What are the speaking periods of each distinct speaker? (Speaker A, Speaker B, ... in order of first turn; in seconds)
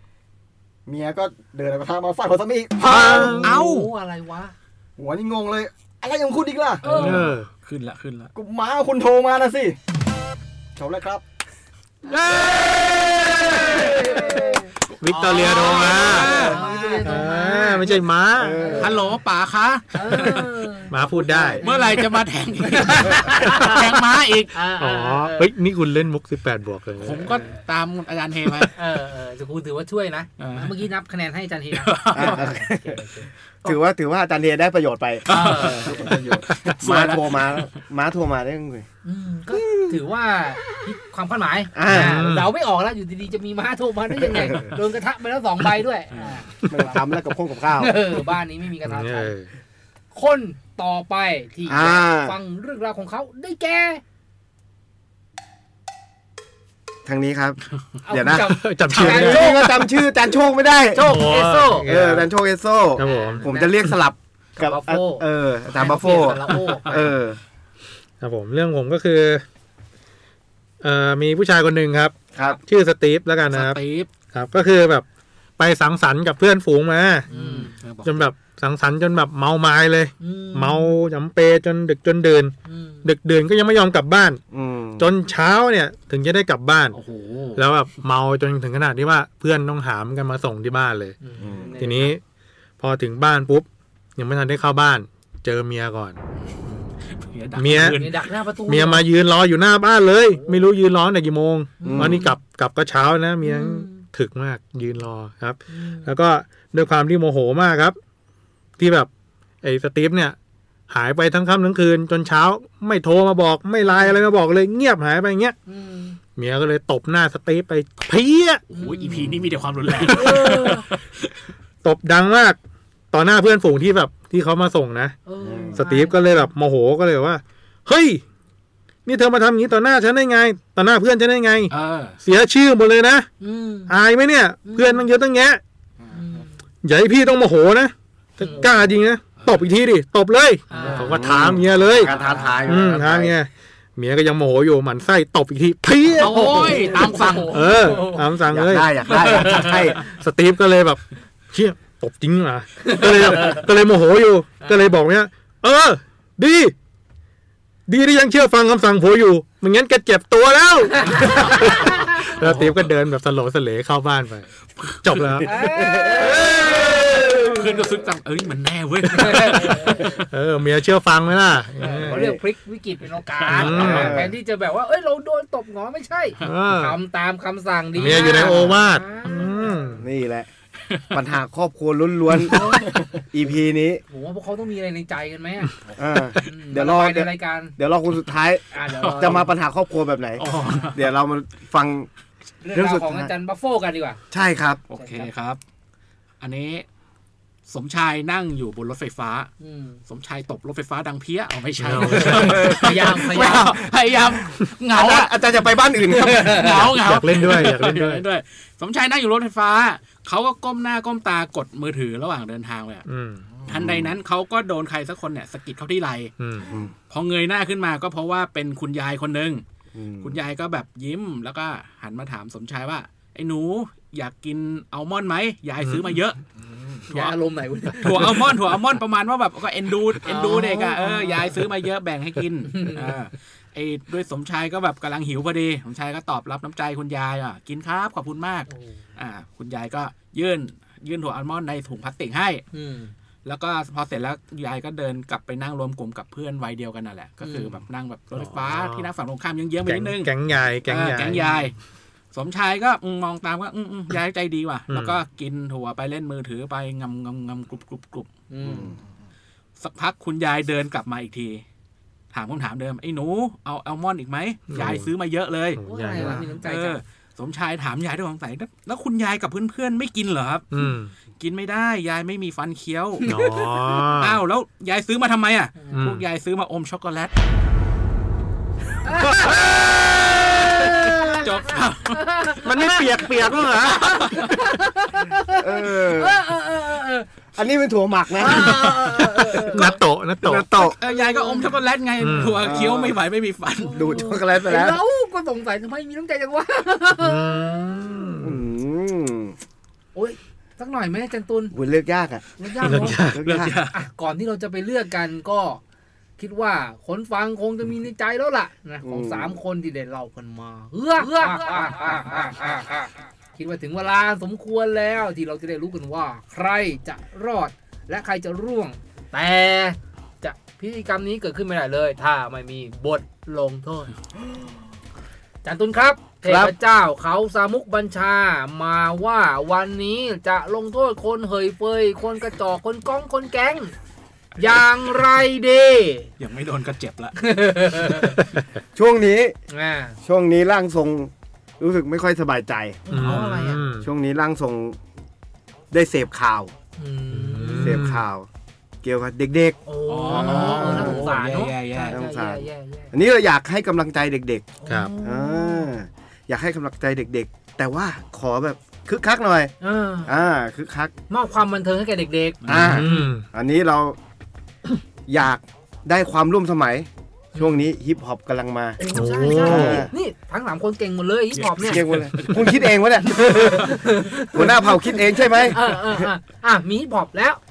Speaker A: 0.9-3.4, 5.0-7.1, 8.3-9.8, 10.8-11.2, 35.9-36.4
Speaker B: 2.9-3.5, 6.8-7.5, 15.0-16.4, 17.0-18.7, 20.9-21.6, 24.8-27.4, 41.9-42.5, 48.9-49.5, 58.6-59.5, 61.0-62.3, 63.0-63.5, 68.2-69.4, 70.8-73.8, 74.3-75.0, 75.6-77.3, 78.0-84.4, 85.0-87.0, 87.6-91.2, 91.8-92.2, 92.8-96.8, 97.6-98.0, 98.7-108.0, 108.8-109.1, 109.6-110.4, 110.9-115.5, 116.4-118.6, 121.8-122.6, 123.1-125.2, 125.7-128.2, 129.1-131.7, 132.2-133.3, 133.9-135.6, 136.8-142.1, 142.7-146.9, 147.5-151.0, 151.5-156.7, 157.9-164.5, 165.0-167.4, 170.0-172.2, 173.5-174.3, 176.4-177.0, 178.0-180.0, 201.8-202.7, 207.0-208.2, 213.1-213.5, 216.4-216.7, 248.4-249.1, 249.9-251.6, 254.9-255.2, 264.7-265.1, 265.8-266.4, 270.7-271.1, 273.2-274.4, 275.9-276.2, 279.4-279.8, 280.9-281.2, 282.6-284.1, 289.7-290.9, 292.2-292.6, 297.2-298.6, 302.8-303.4, 343.1-344.1, 347.3-348.2, 362.7-363.4, 369.1-370.1
Speaker C: 2.9-4.5, 6.8-7.3, 13.7-18.0, 18.6-19.2, 19.9-21.0, 21.6-22.0, 22.7-23.9, 24.5-25.5, 28.7-33.8, 35.3-36.1, 39.0-47.0, 47.8-49.3, 50.1-54.0, 58.1-59.9, 60.9-61.9, 63.0-63.8, 64.6-67.0, 77.3-78.2, 80.2-81.0, 82.7-83.1, 86.9-87.6, 91.2-92.2, 97.9-99.1, 100.3-100.7, 101.8-102.3, 103.4-104.0, 105.7-106.1, 113.9-114.2, 115.7-116.2, 118.7-119.3, 120.0-120.9, 125.2-126.5, 133.4-133.9, 134.7-135.1, 136.1-136.5, 138.4-138.8, 140.7-141.3, 146.2-148.3, 149.2-149.9, 152.8-153.6, 165.4-166.7, 169.1-170.2, 171.8-180.0, 182.5-183.1, 184.1-185.7, 186.4-187.8, 188.7-189.5, 192.6-194.2, 194.9-195.3, 199.6-200.0, 202.2-203.8, 206.2-206.9, 227.1-228.5, 230.2-231.6, 232.7-233.2, 238.7-239.0, 242.7-243.1, 247.4-247.8, 258.5-259.0, 265.8-267.0, 273.2-273.6, 275.8-276.1, 279.0-279.5, 280.7-283.4, 284.0-287.3, 288.4-290.0, 291.1-291.7, 293.8-298.4, 300.1-301.8, 302.6-303.2, 303.9-305.8, 306.4-324.1, 325.6-333.9, 334.6-336.3, 337.4-338.4, 339.7-340.2, 343.1-343.9, 347.0-348.0, 349.9-353.1, 354.8-356.0, 359.8-360.4, 361.3-363.4, 367.5-367.9, 369.0-372.0, 373.3-377.6
Speaker D: 3.2-3.9, 6.8-8.3, 15.5-17.2, 18.8-20.5, 21.6-24.6, 27.0-28.7, 30.4-30.8, 31.7-32.5, 35.3-37.7, 66.5-67.0, 73.5-74.1, 77.3-77.7, 97.1-98.3, 118.7-121.3, 131.7-132.2, 141.8-142.7, 146.2-147.7, 162.4-162.9, 164.8-165.4, 167.2-170.0, 188.9-189.4, 190.4-191.1, 194.9-195.6, 196.4-196.9, 197.7-199.5, 200.1-213.1, 213.7-216.3, 217.1-219.6, 220.2-226.4, 227.1-227.3, 228.0-242.6, 243.4-250.3, 250.9-251.8, 252.3-258.3, 259.8-261.6, 262.3-270.7, 271.4-273.3, 273.9-277.3, 281.4-282.2, 284.0-284.6, 290.9-294.0, 303.4-303.9, 336.4-337.4, 343.2-343.5, 350.1-352.2, 371.6-372.9
Speaker E: 18.4-19.1, 21.1-21.6, 32.1-33.0, 33.6-38.9, 39.5-40.0, 41.8-42.2, 46.7-48.0, 51.7-52.4, 57.1-61.1, 61.9-67.4, 72.3-72.6, 84.5-85.1, 91.4-91.7, 101.8-102.2, 125.4-125.8, 140.9-143.4, 148.5-150.0, 165.8-166.5, 172.0-172.4, 173.6-174.3, 178.3-178.7, 180.0-180.5, 181.1-184.0, 186.0-192.1, 192.7-193.3, 194.3-194.8, 202.4-203.8, 204.9-206.8, 213.7-214.2, 216.6-216.9, 219.9-220.4, 258.6-258.9, 285.5-286.4, 287.6-289.6, 290.4-291.0, 292.6-293.2, 293.9-295.0, 298.4-299.6, 301.7-302.4, 303.1-303.8, 309.0-309.6, 326.4-326.7, 338.9-339.6, 340.2-343.0, 344.0-345.0, 345.9-346.7, 347.8-348.5, 349.0-349.8, 350.3-351.3, 352.1-354.7, 355.2-359.7, 360.2-361.1, 362.7-364.2, 365.3-369.0, 369.6-370.1, 371.8-374.0, 374.5-376.2